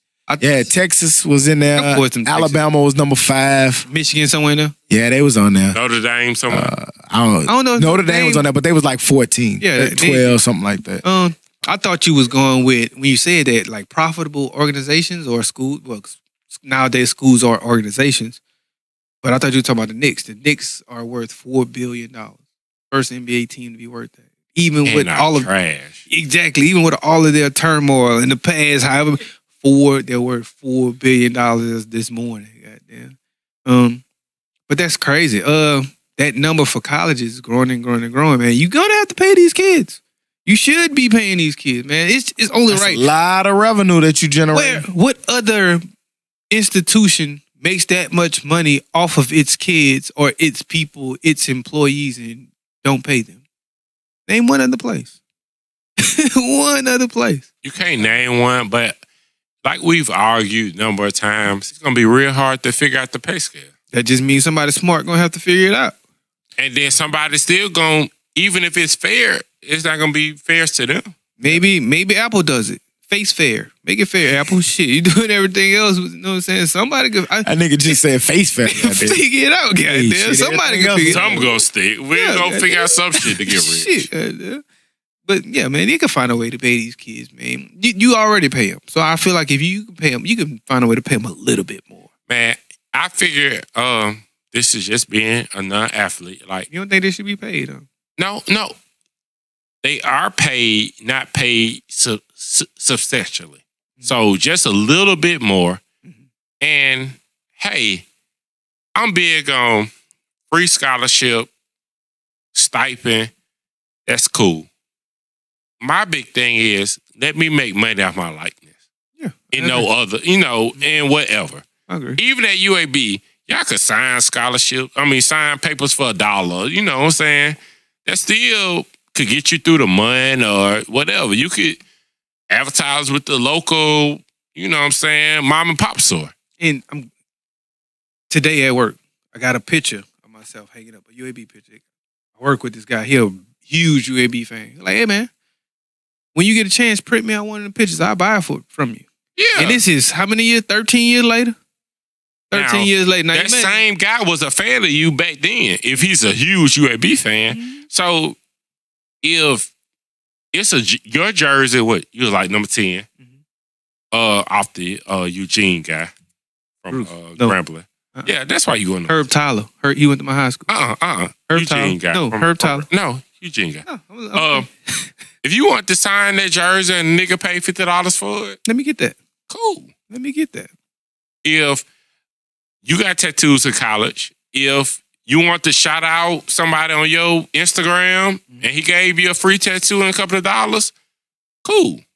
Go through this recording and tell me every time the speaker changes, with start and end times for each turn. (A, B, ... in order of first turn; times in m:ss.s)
0:00.3-0:00.7 A
0:00.4-0:03.8 B
0:01.8-0:02.6 A
0:03.9-0:04.7 A
0:04.9-0:05.8 B
0:05.7-0:06.7 C
0:06.5-0:11.0 B
0:07.5-0:08.4 A
0:09.6-0:10.3 A
0:11.0-0:18.4 A
0:19.2-0:22.4 A
0:22.9-0:25.5 A
0:24.8-0:26.0 C
0:26.1-0:33.1 A
0:33.6-0:34.0 A
0:34.7-0:43.0 A
0:42.7-0:44.8 B
0:44.5-0:45.8 A
0:46.5-0:53.4 A
0:54.3-0:55.1 A
0:56.0-0:57.4 A
0:57.6-0:59.0 C
0:59.6-1:03.7 C
1:03.9-1:06.0 A
1:06.6-1:11.1 C
1:11.4-1:17.5 A
1:17.4-1:19.2 B
1:18.7-1:21.4 A
1:19.9-1:21.5 B
1:21.0-1:24.1 C
1:22.1-1:24.6 A
1:25.2-1:32.1 A
1:32.3-1:36.7 C
1:36.7-1:37.8 A
1:38.2-1:38.7 C
1:39.8-1:45.8 C
1:46.6-1:48.0 C
1:48.9-1:49.9 C
1:50.5-1:51.5 C
1:52.5-1:53.3 C
1:54.0-1:54.7 C
1:55.8-1:58.6 C
1:59.2-1:59.9 A
1:59.5-2:01.6 C
2:01.9-2:02.2 A
2:02.2-2:11.8 C
2:12.5-2:16.3 C
2:16.6-2:17.1 A
2:18.3-2:21.8 A
2:22.4-2:25.3 A
2:26.3-2:31.6 A
2:29.4-2:29.8 C
2:32.5-2:33.8 A
2:32.5-2:38.4 C
2:37.5-2:37.8 A
2:39.2-2:39.7 C
2:40.5-2:43.0 C
2:44.1-2:46.1 C
2:46.8-2:49.2 C
2:46.9-2:47.6 A
2:49.1-2:50.7 A
2:50.7-2:54.7 C
2:51.5-2:52.9 A
2:53.8-2:55.1 A
2:55.4-2:58.6 C
2:58.6-2:59.2 A
2:59.5-2:59.9 C
3:00.1-3:00.7 A
3:01.4-3:01.8 C
3:02.8-3:10.9 C
3:11.6-3:12.0 C